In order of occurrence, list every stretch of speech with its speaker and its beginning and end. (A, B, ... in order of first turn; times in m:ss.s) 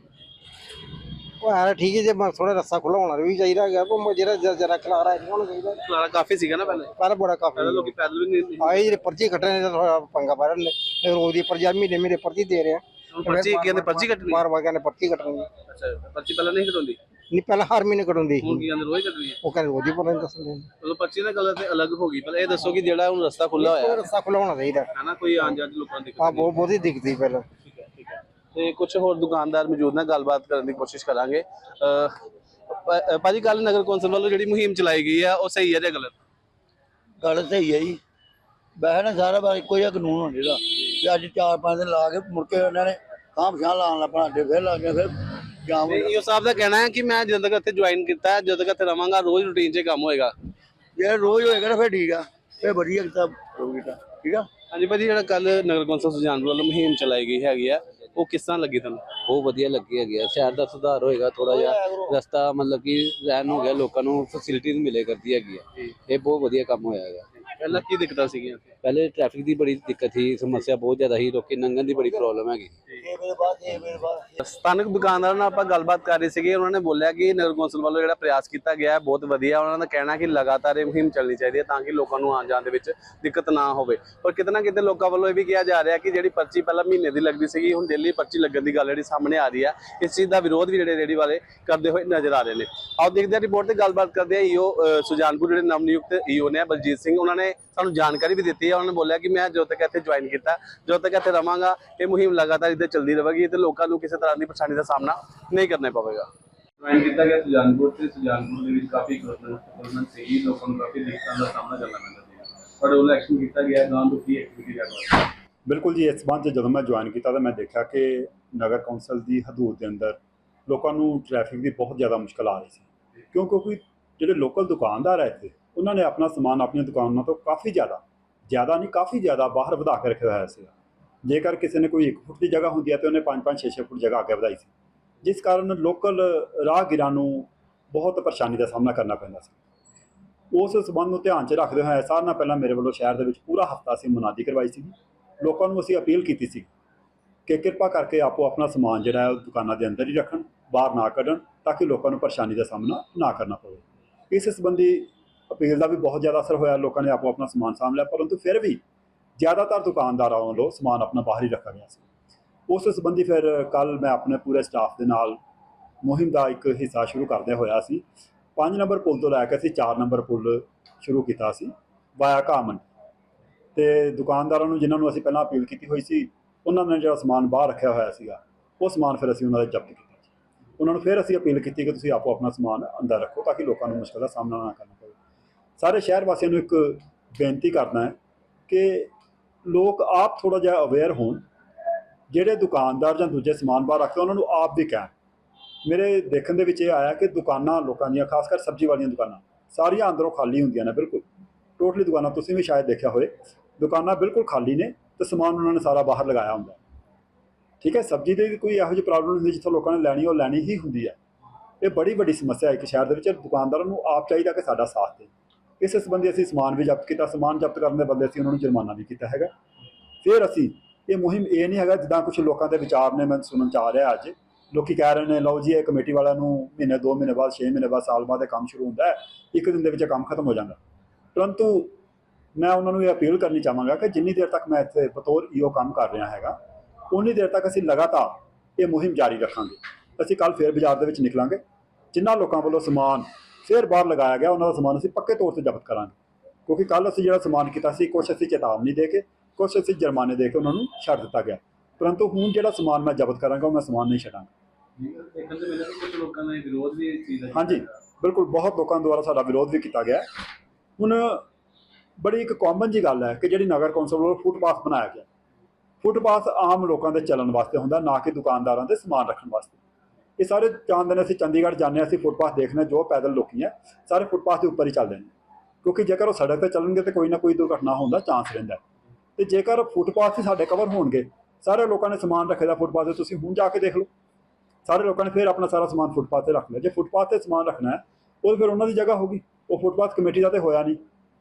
0:01.4-0:05.8 A
0:05.8-0:06.9 B
0:07.0-0:07.9 A
0:07.6-0:09.0 B
0:08.6-0:15.5 A
0:13.1-0:14.4 B
0:15.7-0:17.0 B
0:17.3-0:18.6 A
0:18.4-0:19.4 B
0:19.4-0:20.7 A
0:20.8-0:24.1 B
0:23.6-0:24.9 A
0:24.9-0:26.6 B
0:26.2-0:27.4 A
0:27.7-0:32.1 B
0:32.7-0:36.1 B
0:37.2-0:38.0 C
0:38.8-0:46.1 C
0:45.8-0:50.3 B
0:51.0-0:54.5 C
0:54.7-0:59.1 B
0:59.2-1:07.2 D
1:01.5-1:02.1 C
1:07.5-1:08.7 B
1:08.8-1:12.7 D
1:13.0-1:14.2 C
1:14.4-1:46.3 B
1:46.8-1:55.3 B
1:55.7-2:10.7 E
2:11.2-2:14.7 E
2:15.2-2:19.5 E
2:20.5-2:26.7 E
2:27.5-2:38.8 E
2:39.4-2:42.0 E
2:42.7-2:45.4 E
2:46.0-2:48.0 E
2:48.6-2:52.8 E
2:53.7-3:00.3 E
3:00.8-3:05.2 E
3:05.8-3:08.1 E
3:08.7-3:09.1 E
3:09.6-3:11.4 E
3:12.3-3:15.1 E
3:15.8-3:21.2 E
3:21.8-3:26.8 E
3:27.8-3:31.2 E
3:31.8-3:39.5 E
3:40.2-3:50.8 E
3:51.3-3:52.0 E
3:52.6-3:56.6 E
3:57.1-4:01.6 E
4:02.1-4:06.1 E
4:06.7-4:14.5 E
4:15.0-4:17.9 B
4:17.5-4:20.2 E
4:21.0-4:21.4 E
4:22.2-4:25.2 E
4:26.0-4:29.8 E
4:30.4-4:35.3 E
4:35.8-4:38.8 E
4:39.4-4:44.1 E
4:44.8-4:51.0 E